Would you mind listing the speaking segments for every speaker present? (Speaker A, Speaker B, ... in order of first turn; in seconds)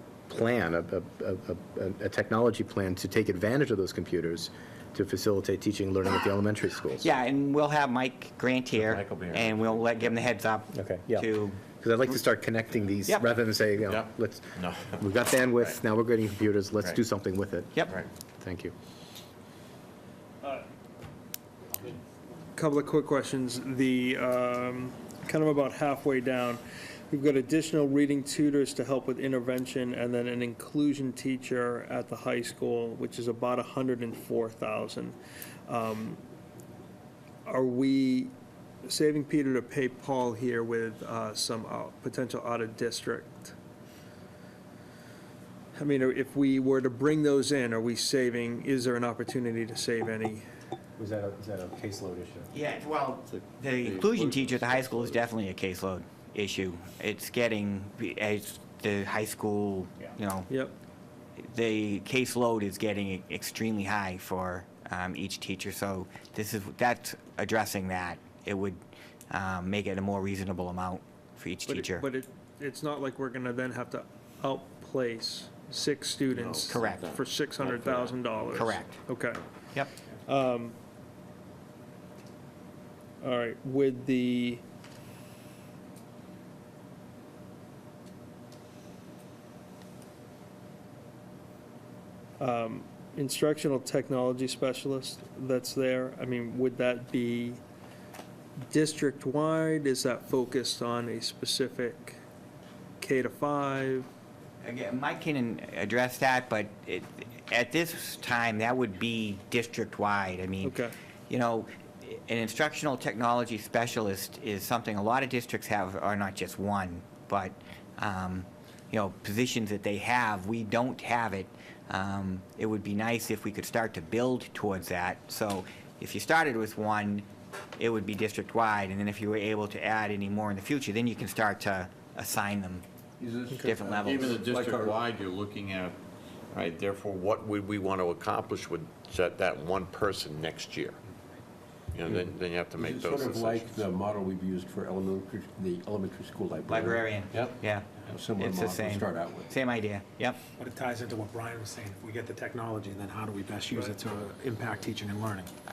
Speaker A: 0.3-7.1, 10.7-18.7, 51.0-52.5
Speaker B: 7.0-11.6, 52.5-60.5, 61.4-72.1, 76.7-77.0, 78.5-79.0, 104.6-110.8, 111.3-132.8, 133.6-134.4, 146.7-150.4
Speaker C: 8.7-10.1, 13.9-15.0, 53.8-55.0, 76.3-78.2, 134.0-136.0, 136.5-141.0, 141.9-143.7
Speaker D: 22.6-26.6, 27.1-35.2, 35.7-36.2, 37.5-43.5, 45.8-50.4, 60.5-60.7, 71.7-79.4, 80.3-80.8, 83.2-84.6, 92.4-97.6, 98.7-102.2, 103.0-104.1, 110.6-110.9
Speaker E: 133.2-135.1, 142.1-149.5
Speaker F: 150.6-155.5